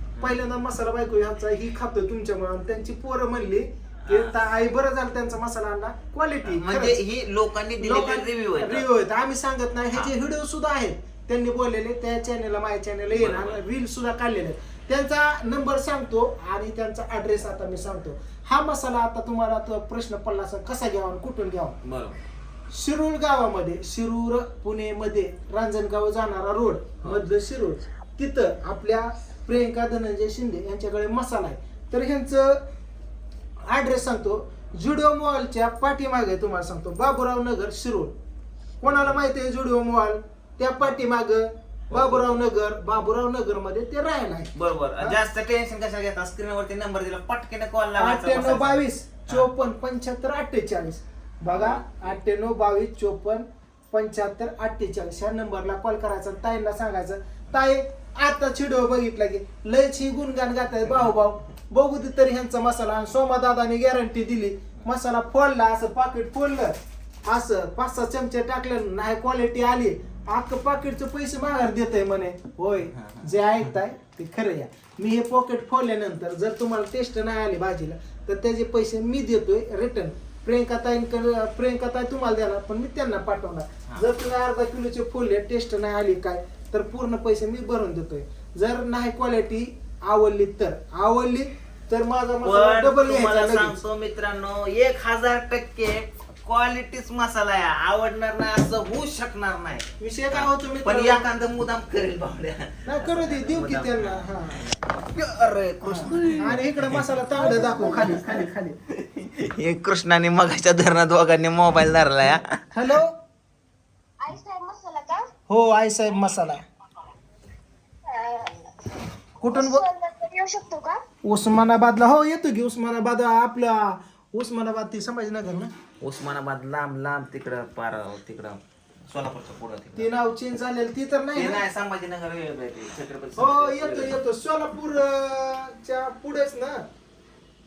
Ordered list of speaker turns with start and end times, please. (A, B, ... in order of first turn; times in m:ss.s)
0:00.2-0:07.0 A
0:04.0-0:04.3 B
0:06.4-0:08.8 B
0:07.8-0:21.8 A
0:13.1-0:13.6 B
0:21.8-0:22.2 B
0:22.7-0:32.6 A
0:33.7-0:38.1 A
0:38.8-0:45.2 A
0:38.8-0:39.2 B
0:41.9-0:42.3 B
0:44.5-0:49.5 B
0:48.0-1:33.7 A
0:51.5-0:52.2 B
1:00.9-1:01.1 B
1:12.9-1:13.3 B
1:32.4-1:52.6 B
1:40.0-1:41.2 A
1:42.8-1:44.6 A
1:45.8-1:48.7 A
1:47.5-1:48.2 C
1:52.7-1:53.1 A
1:54.2-1:55.3 C
1:55.5-1:56.6 A
1:58.0-2:01.0 C
1:59.4-1:59.9 A
2:01.2-2:05.7 A
2:06.0-2:10.1 B
2:10.0-2:11.6 A
2:11.3-2:14.1 B
2:13.4-2:16.8 A